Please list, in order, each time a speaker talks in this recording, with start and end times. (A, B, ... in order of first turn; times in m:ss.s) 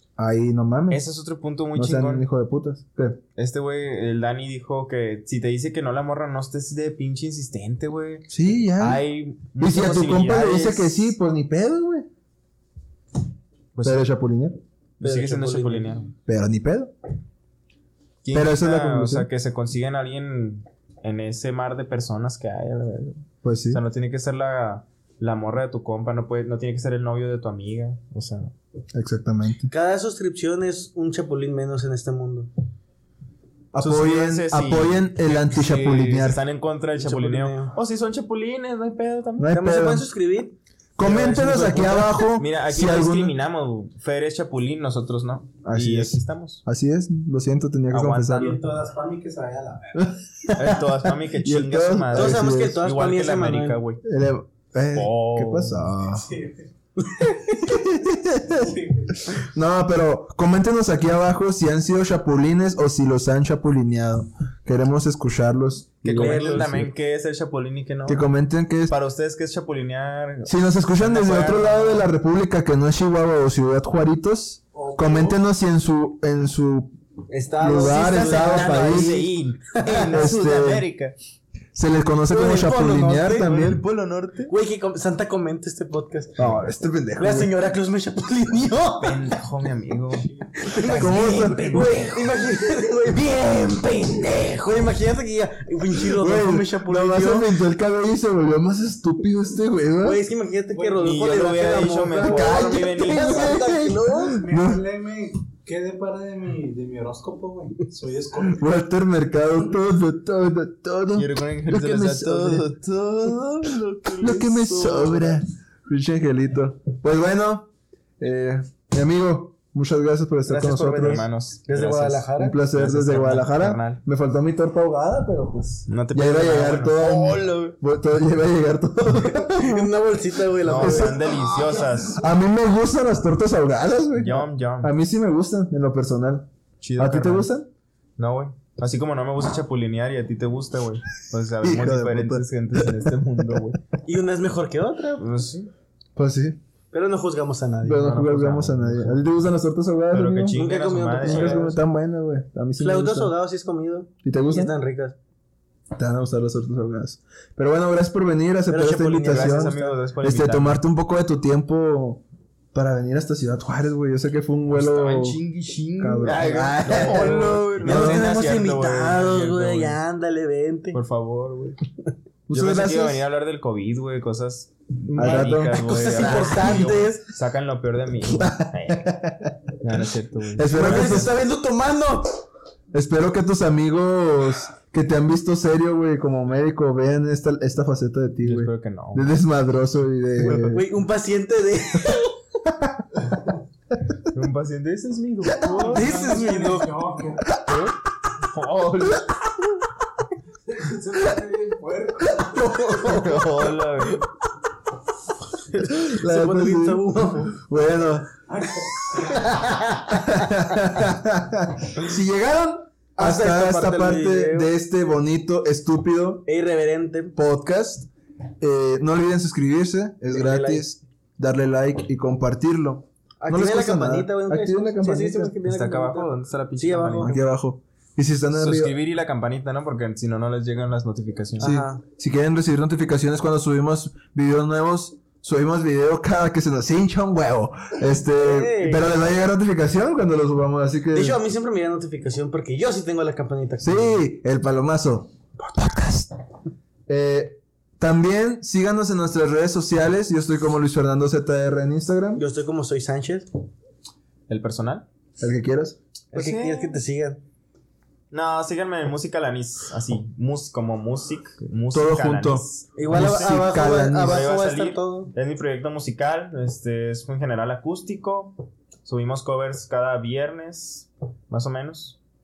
0:00.2-0:01.0 A
0:00.9-0:02.2 B
0:01.7-0:03.2 A
0:03.4-0:11.1 B
0:08.3-0:09.0 A
0:09.6-0:12.1 A
0:13.7-0:14.1 B
0:13.8-0:14.6 A
0:15.0-0:16.1 B
0:15.0-0:16.0 C
0:16.2-0:16.9 A
0:18.2-0:28.5 B
0:18.3-0:19.3 A
0:23.4-0:23.8 A
0:28.9-0:29.7 A
0:29.7-0:32.5 C
0:33.7-0:36.4 A
0:33.8-0:39.5 B
0:37.0-0:37.7 C
0:39.4-0:40.1 A
0:39.5-0:42.1 C
0:41.0-0:43.3 A
0:42.4-0:46.6 B
0:45.6-0:48.6 A
0:47.9-0:48.6 B
0:48.3-0:50.0 D
0:49.9-0:52.8 A
0:50.5-0:54.0 B
0:52.1-0:53.8 C
0:54.0-0:56.2 A
0:54.9-0:55.9 B
0:56.1-0:56.7 D
0:57.0-0:57.4 C
0:57.6-0:58.7 A
0:58.6-0:59.2 D
0:59.4-1:06.9 A
1:06.0-1:08.2 B
1:06.2-1:06.7 C
1:08.0-1:08.9 A
1:08.9-1:12.0 B
1:10.4-1:16.9 A
1:14.7-1:15.4 D
1:17.3-1:20.2 C
1:17.6-1:19.2 A
1:17.8-1:21.1 B
1:20.1-1:20.9 A
1:21.7-1:23.8 A
1:22.3-1:23.5 C
1:23.3-1:24.5 B
1:24.5-1:26.5 C
1:26.4-1:27.5 A
1:27.2-1:29.4 C
1:29.0-1:30.3 B
1:30.2-1:31.3 D
1:30.6-1:37.5 C
1:30.8-1:32.2 B
1:30.9-1:32.2 A
1:36.0-1:40.2 A
1:40.0-1:44.4 C
1:40.7-1:41.4 D
1:41.0-1:43.7 B
1:42.2-1:44.8 A
1:44.4-1:48.7 D
1:48.6-1:52.7 A
1:51.2-1:55.4 B
1:54.2-2:01.3 A
2:00.4-2:02.6 C
2:01.0-2:04.0 B
2:02.4-2:09.9 A
2:05.9-2:07.8 B
2:09.1-2:11.4 C
2:10.6-2:12.2 B
2:10.8-2:17.7 A
2:14.2-2:14.9 B
2:16.8-2:17.5 B
2:18.2-2:23.8 B
2:21.6-2:22.9 A
2:24.0-2:25.2 C
2:25.2-2:25.7 B
2:26.2-2:26.6 A
2:26.9-2:28.6 C
2:27.8-2:30.6 A
2:28.2-2:29.2 B
2:30.1-2:31.8 B
2:30.5-2:31.8 C
2:31.2-2:33.3 A
2:32.8-2:35.2 C
2:34.2-2:34.7 A
2:35.9-2:45.4 A
2:38.7-2:40.0 C
2:39.2-2:40.8 B
2:44.7-2:50.0 B
2:46.0-2:48.3 A
2:46.8-2:51.0 C
2:50.9-2:51.8 B
2:52.5-2:53.2 A
2:52.5-2:59.2 B
2:55.1-2:56.7 A
2:55.2-2:57.3 C
2:58.4-2:59.9 A
2:59.8-3:01.3 B
3:00.6-3:01.3 A
3:00.7-3:02.4 C
3:02.9-3:10.9 A
3:08.4-3:09.3 B
3:10.4-3:12.3 C
3:14.3-3:16.2 B
3:15.6-3:17.5 D
3:15.8-3:17.1 C
3:17.6-3:19.3 B
3:20.7-3:22.7 D
3:22.4-3:23.7 C
3:23.0-3:24.2 B
3:25.8-3:28.3 A
3:25.9-3:27.6 C
3:28.5-3:29.5 D
3:29.2-3:30.7 C
3:30.1-3:36.5 A
3:33.2-3:34.7 C
3:36.5-3:37.3 C
3:37.3-3:38.1 A
3:38.6-3:45.6 A
3:40.3-3:40.8 C
3:43.4-3:47.4 C
3:45.6-3:47.4 B
3:47.2-3:48.9 A
3:48.5-3:51.8 B
3:51.6-3:52.0 C
3:51.6-4:01.4 A
3:58.2-3:59.2 C
4:01.1-4:04.2 C
4:03.8-4:06.3 A
4:07.1-4:12.4 A
4:12.3-4:13.5 C
4:14.5-4:15.0 B
4:15.4-4:16.0 A
4:16.3-4:17.0 B
4:16.3-4:17.4 C
4:18.3-4:28.5 B
4:21.9-4:24.4 A
4:23.0-4:25.3 C
4:29.0-4:32.2 B